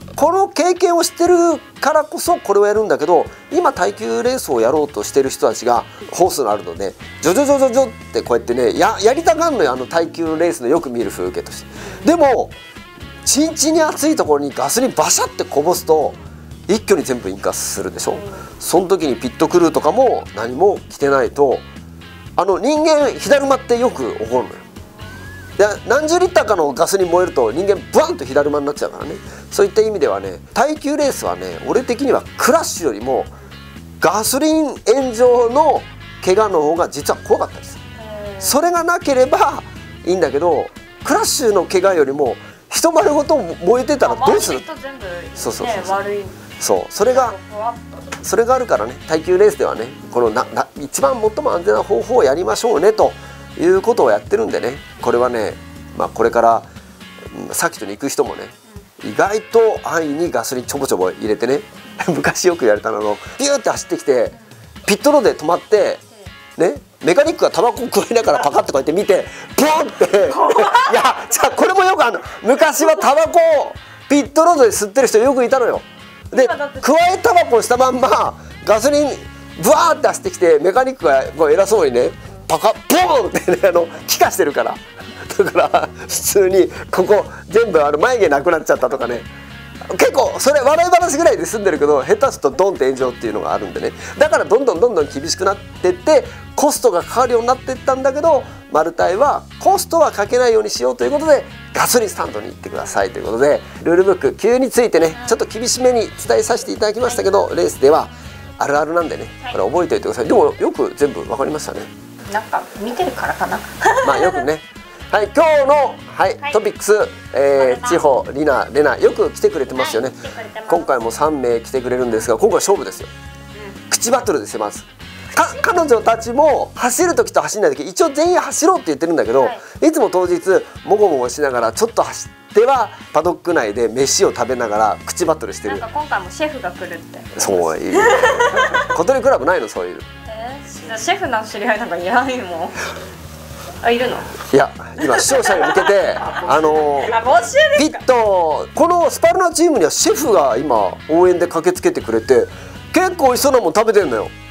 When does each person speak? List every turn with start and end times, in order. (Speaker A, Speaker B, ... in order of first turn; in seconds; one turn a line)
Speaker A: 0.2-12.6
Speaker B: 11.8-12.1
Speaker A: 13.2-16.2
Speaker A: 16.7-21.6
Speaker B: 18.1-18.5
Speaker A: 22.4-24.6
Speaker A: 25.6-33.3
Speaker A: 34.0-37.8
Speaker B: 38.0-38.7
Speaker A: 38.4-44.6
Speaker B: 44.0-46.5
Speaker A: 45.4-46.0
Speaker A: 46.6-47.4
Speaker B: 47.0-47.9
Speaker A: 48.2-56.7
Speaker A: 57.3-64.3
Speaker A: 64.9-66.0
Speaker A: 66.6-89.3
Speaker B: 70.4-70.9
Speaker B: 76.3-77.0
Speaker A: 89.9-111.9
Speaker B: 112.3-114.4
Speaker A: 114.0-123.1
Speaker B: 117.6-118.1
Speaker B: 119.7-121.0
Speaker B: 123.6-123.8
Speaker A: 123.9-135.8
Speaker B: 135.7-138.9
Speaker A: 137.4-140.1
Speaker B: 140.3-142.9
Speaker B: 143.8-144.4
Speaker A: 144.4-147.2
Speaker B: 145.0-148.0
Speaker A: 147.8-154.3